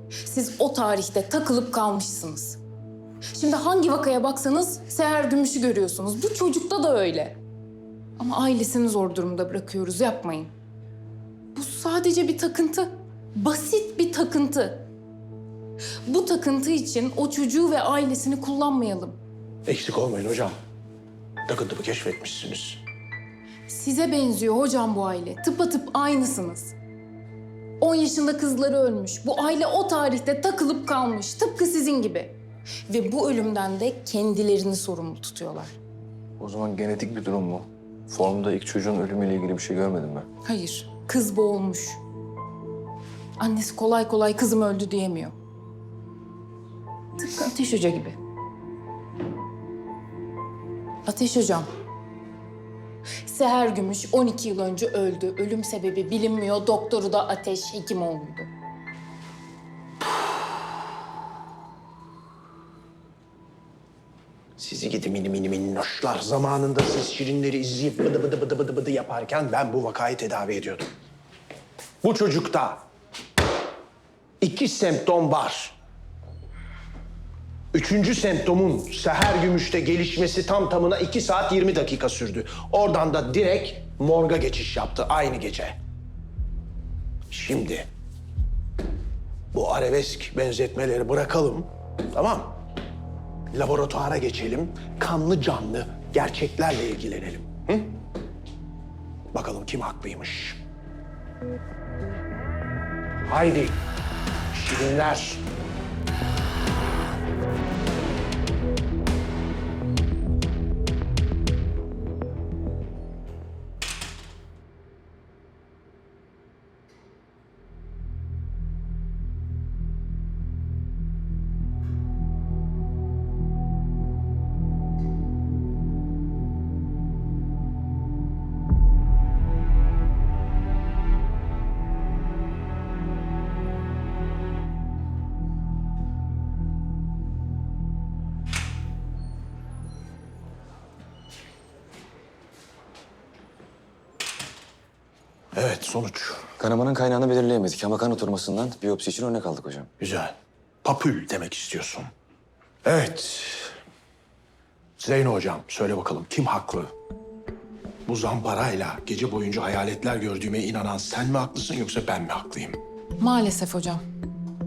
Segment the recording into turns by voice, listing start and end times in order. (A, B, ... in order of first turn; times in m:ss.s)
0:00.2-0:02.6 A
0:03.3-0:07.4 A
0:08.2-0:10.5 A
0:11.5-0:14.8 A
0:16.0-0:19.2 A
0:19.6-0:20.5 B
0:21.4-0:22.8 B
0:23.7-0:26.7 A
0:27.8-0:32.4 A
0:32.9-0:35.8 A
0:36.4-0:40.2 C
0:36.4-0:38.4 D
0:39.1-0:39.6 D
0:40.4-0:42.0 A
0:43.4-0:45.3 A
0:47.2-0:48.2 A
0:51.0-0:51.7 A
0:53.2-0:58.5 A
1:04.6-1:10.9 B
1:12.0-1:12.8 B
1:14.4-1:15.8 B
1:17.7-1:25.8 B
1:27.3-1:27.9 B
1:29.5-1:32.6 B
1:33.5-1:37.9 B
1:39.3-1:40.6 B
1:43.3-1:43.8 B
1:44.5-1:45.4 B
2:25.5-2:26.4 B
2:26.6-2:29.9 D
2:30.0-2:32.1 B
2:32.8-2:33.7 B
2:35.0-2:36.9 B
2:38.1-2:42.8 B
2:43.2-2:44.0 A